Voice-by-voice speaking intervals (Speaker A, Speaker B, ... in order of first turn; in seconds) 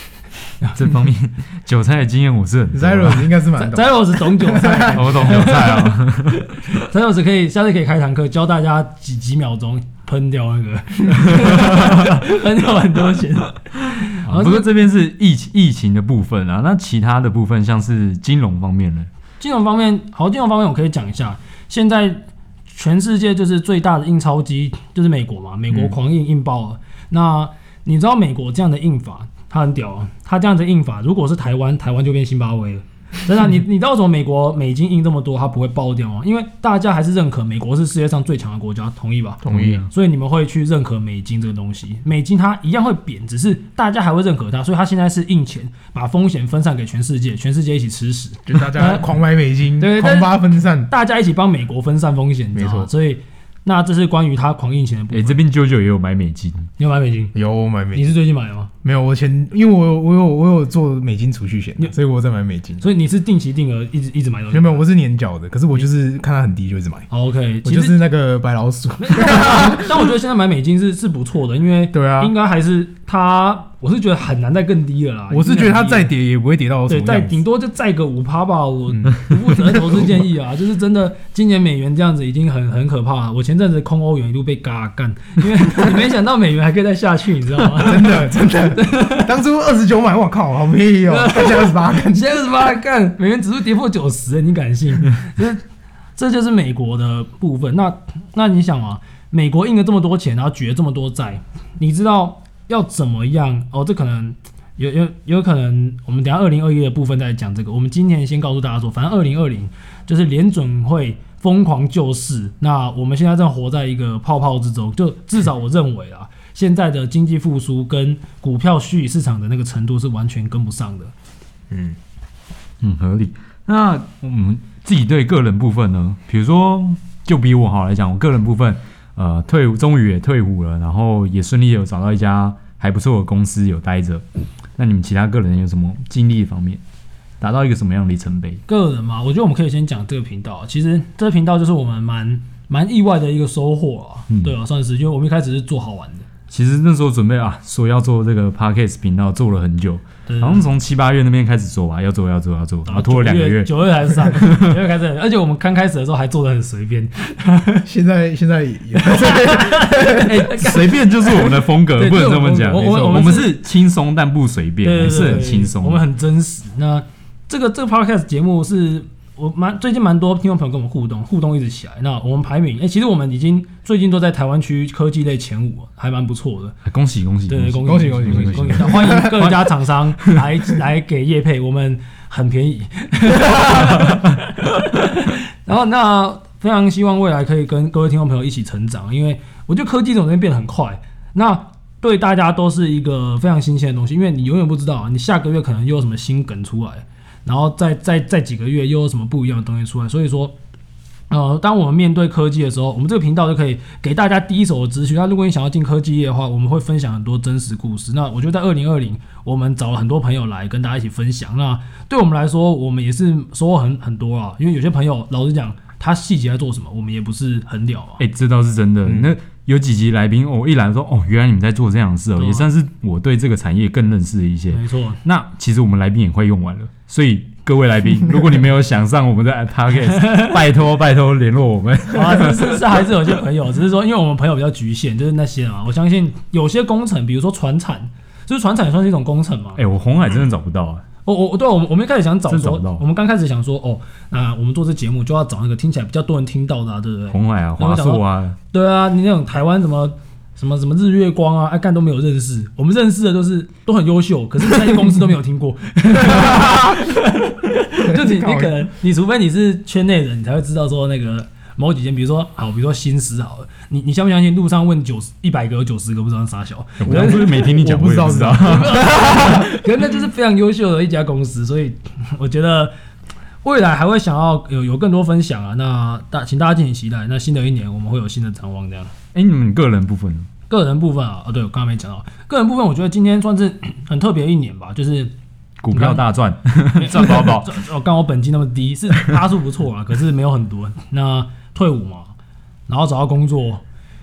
Speaker A: 0.8-3.4, 4.9-6.5, 14.1-19.1, 55.1-56.7, 122.8-134.2, 134.8-136.8, 137.4-138.6, 144.3-144.5, 146.5-154.8, 160.0-166.0, 176.8-179.5, 218.2-232.8, 239.8-241.0, 242.5-243.0, 247.3-248.6, 267.0-269.1, 279.3-280.5, 285.8-287.8
Speaker B: 2.7-5.1, 39.4-39.9, 48.5-50.9, 52.5-52.9, 57.3-58.0, 58.8-62.8, 64.5-67.1, 67.6-70.1, 71.9-72.3, 75.3-77.4, 78.9-80.0, 87.8-92.3, 121.7-122.0, 157.8-160.2, 162.7-163.5, 177.8-179.6, 219.1-219.3, 258.1-258.8, 267.1-269.7
Speaker C: 3.5-14.7, 19.4-49.1, 49.8-55.4, 56.8-57.3, 57.9-58.7, 62.8-64.8, 67.1-68.0, 69.0-76.1, 76.9-89.3, 91.0-95.6, 96.2-121.1, 138.7-146.3, 150.3-150.7, 152.8-157.9, 159.0-163.6, 164.8-176.8, 177.5-200.5, 201.3-218.2, 222.4-222.7, 224.7-225.2, 232.1-239.8, 241.2-267.7, 268.6-272.9, 273.6-279.1, 280.7-285.3, 285.9-286.2, 286.9-292.3, 292.9-293.8